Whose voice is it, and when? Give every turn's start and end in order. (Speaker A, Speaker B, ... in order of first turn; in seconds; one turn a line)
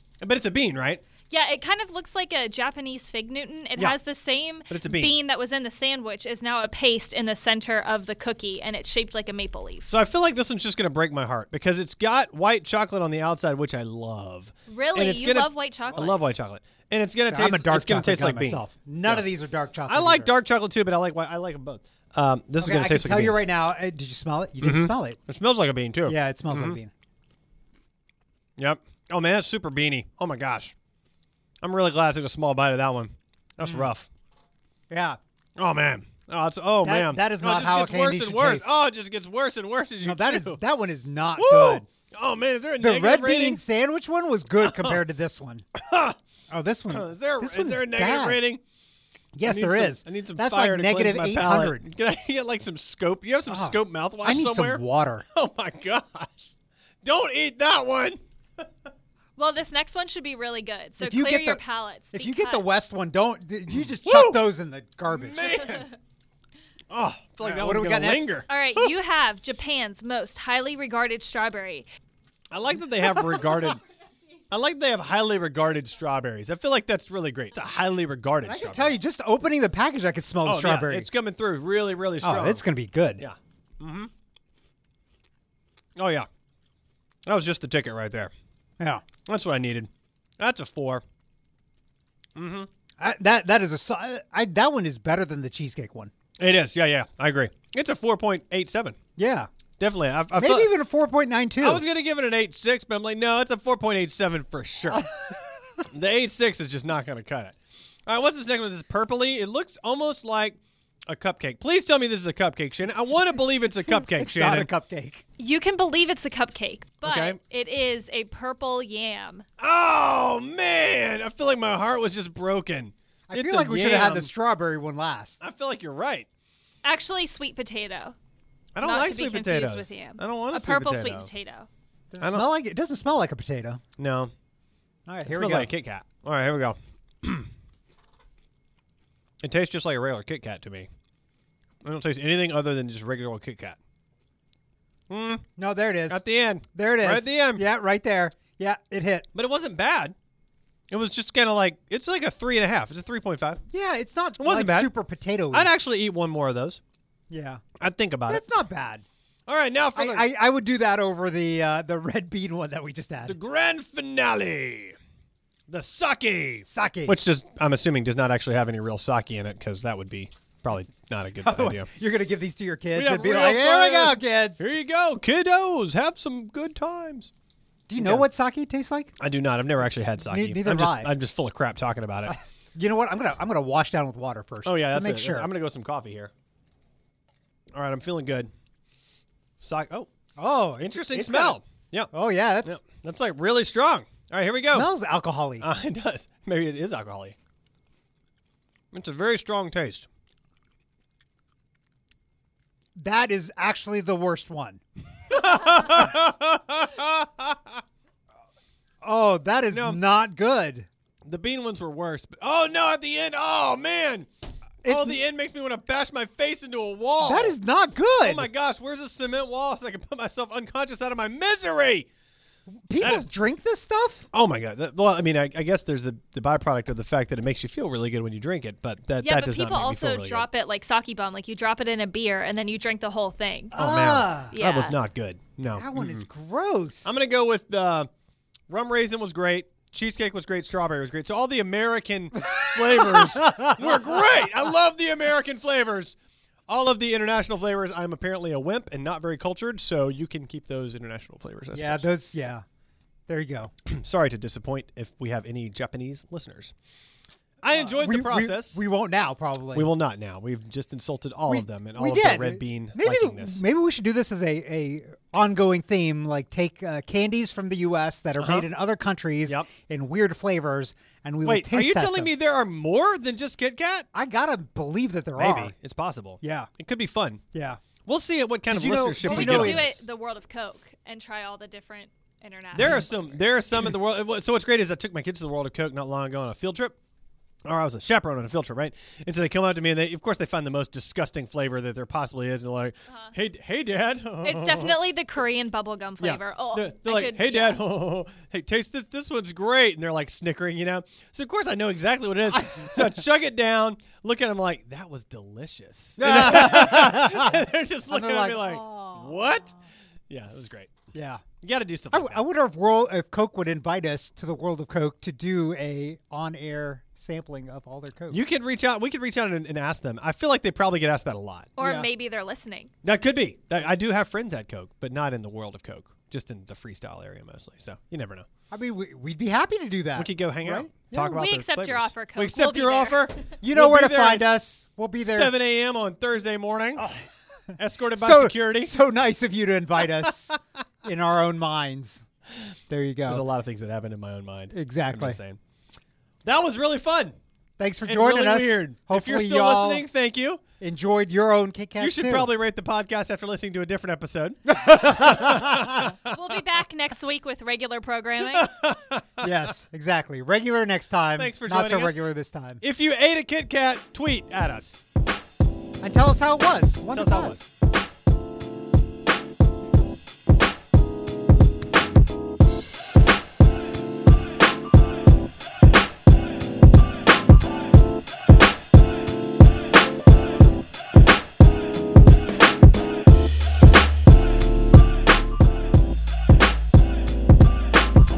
Speaker A: 0.2-1.0
Speaker B: 1.3-9.9
Speaker A: 4.7-5.2
Speaker A: 9.9-19.3
Speaker B: 14.7-16.2
Speaker C: 17.3-20.3
Speaker A: 19.9-23.4
Speaker C: 22.6-25.2
Speaker A: 24.6-26.8
Speaker C: 26.1-26.9
Speaker A: 28.6-30.7
Speaker A: 31.6-34.1
Speaker C: 33.6-33.9
Speaker C: 34.9-35.2
Speaker A: 35.6-40.6
Speaker C: 36.8-38.7
Speaker C: 40.0-41.9
Speaker A: 41.4-43.6
Speaker C: 42.8-45.6
Speaker A: 44.6-45.0
Speaker A: 45.8-46.1
Speaker C: 46.5-48.4
Speaker A: 46.9-48.6
Speaker C: 49.3-51.9
Speaker A: 49.4-54.8
Speaker C: 53.5-55.2
Speaker A: 55.3-58.2
Speaker B: 59.4-62.7
Speaker C: 61.0-61.6
Speaker C: 62.1-65.8
Speaker A: 63.8-64.5
Speaker A: 65.0-65.9
Speaker A: 66.9-68.9
Speaker C: 67.4-68.4
Speaker B: 68.5-71.9
Speaker A: 72.5-73.8
Speaker C: 73.0-73.5
Speaker A: 74.5-79.0
Speaker C: 78.4-81.1
Speaker A: 80.4-82.7
Speaker C: 82.2-83.2
Speaker A: 83.2-84.1
Speaker A: 86.0-86.3
Speaker A: 87.2-88.3
Speaker C: 88.8-89.0
Speaker A: 89.2-89.9
Speaker A: 90.4-91.0
Speaker A: 92.3-92.7
Speaker C: 93.0-96.1
Speaker A: 96.4-99.0
Speaker C: 99.2-99.5
Speaker A: 99.8-100.7
Speaker C: 100.3-101.8
Speaker A: 101.6-105.1
Speaker C: 104.9-105.8
Speaker A: 105.9-107.5
Speaker A: 108.1-114.7
Speaker C: 114.0-115.2
Speaker B: 115.4-119.4
Speaker A: 117.0-117.4
Speaker A: 119.6-124.3
Speaker C: 123.3-125.4
Speaker A: 125.4-126.3
Speaker B: 126.8-128.2
Speaker A: 128.7-131.3
Speaker B: 128.8-131.7
Speaker C: 132.1-133.8
Speaker A: 132.2-132.5
Speaker A: 134.0-134.3
Speaker C: 135.1-135.7
Speaker A: 135.3-137.5
Speaker A: 139.4-140.9
Speaker A: 141.8-143.8
Speaker A: 145.1-145.4
Speaker C: 145.6-146.2
Speaker A: 146.1-147.7
Speaker C: 146.7-149.3
Speaker A: 149.3-150.1
Speaker A: 150.9-153.6
Speaker C: 153.7-155.7
Speaker A: 154.4-154.9
Speaker A: 155.5-156.8
Speaker C: 157.3-157.6
Speaker A: 157.8-158.4
Speaker C: 158.3-159.0
Speaker A: 159.5-160.3
Speaker C: 159.9-163.4
Speaker A: 163.2-164.9
Speaker A: 165.7-171.9
Speaker C: 166.6-167.2
Speaker C: 171.4-174.6
Speaker A: 172.9-177.3
Speaker C: 177.9-179.1
Speaker A: 178.0-178.3
Speaker A: 179.2-182.3
Speaker C: 180.2-181.1
Speaker C: 182.3-185.5
Speaker A: 184.6-186.3
Speaker A: 187.7-188.5
Speaker A: 189.6-190.1
Speaker C: 190.4-191.6
Speaker A: 190.8-192.1
Speaker C: 192.1-192.8
Speaker A: 192.6-194.9
Speaker C: 194.6-195.7
Speaker A: 195.6-197.3
Speaker A: 198.9-200.1
Speaker C: 203.0-204.8
Speaker A: 205.3-207.8
Speaker C: 209.0-210.9
Speaker A: 209.7-210.0
Speaker A: 211.2-214.3
Speaker A: 214.8-217.6
Speaker C: 214.8-215.2
Speaker C: 217.2-218.5
Speaker A: 218.2-222.1
Speaker C: 222.7-224.3
Speaker A: 223.0-223.3
Speaker A: 224.3-230.5
Speaker B: 229.2-233.8
Speaker A: 233.7-236.2
Speaker C: 233.7-234.6
Speaker B: 234.5-235.0
Speaker C: 235.7-237.2
Speaker A: 237.0-238.1
Speaker A: 238.7-246.2
Speaker C: 242.3-244.5
Speaker A: 246.7-252.1
Speaker C: 251.7-252.6
Speaker C: 253.3-253.7
Speaker A: 253.8-256.7
Speaker A: 257.6-258.8
Speaker C: 257.7-259.9
Speaker A: 259.7-263.6
Speaker C: 261.5-272.3
Speaker A: 268.4-268.7
Speaker A: 271.4-274.1
Speaker C: 274.1-275.7
Speaker A: 275.4-277.4
Speaker C: 276.4-276.7
Speaker C: 277.5-277.8
Speaker A: 278.0-280.0
Speaker C: 278.7-280.0
Speaker B: 279.2-283.5
Speaker A: 282.7-286.9
Speaker A: 287.6-295.0
Speaker B: 293.1-293.3
Speaker B: 294.4-297.8
Speaker A: 296.2-309.8
Speaker C: 302.5-303.2
Speaker C: 306.2-309.7
Speaker A: 310.3-310.9
Speaker C: 311.1-311.4
Speaker A: 311.6-312.4
Speaker C: 312.1-318.5
Speaker A: 318.3-321.7
Speaker B: 321.8-322.9
Speaker C: 321.8-322.1
Speaker A: 323.0-328.4
Speaker C: 328.7-331.5
Speaker A: 330.1-334.5
Speaker B: 331.2-333.3
Speaker C: 333.6-335.5
Speaker A: 335.2-337.1
Speaker C: 336.9-337.3
Speaker A: 337.8-338.9
Speaker C: 338.1-342.2
Speaker A: 340.1-340.5
Speaker C: 342.9-343.4
Speaker A: 343.3-345.6
Speaker C: 344.7-345.4
Speaker A: 346.4-347.3
Speaker C: 347.8-350.0
Speaker A: 348.0-350.6
Speaker C: 350.8-352.5
Speaker A: 352.0-356.3
Speaker C: 354.6-356.1
Speaker B: 356.2-358.7
Speaker A: 358.4-359.5
Speaker C: 359.4-362.8
Speaker A: 361.4-362.2
Speaker A: 362.8-365.0
Speaker C: 366.0-367.6
Speaker A: 367.1-367.7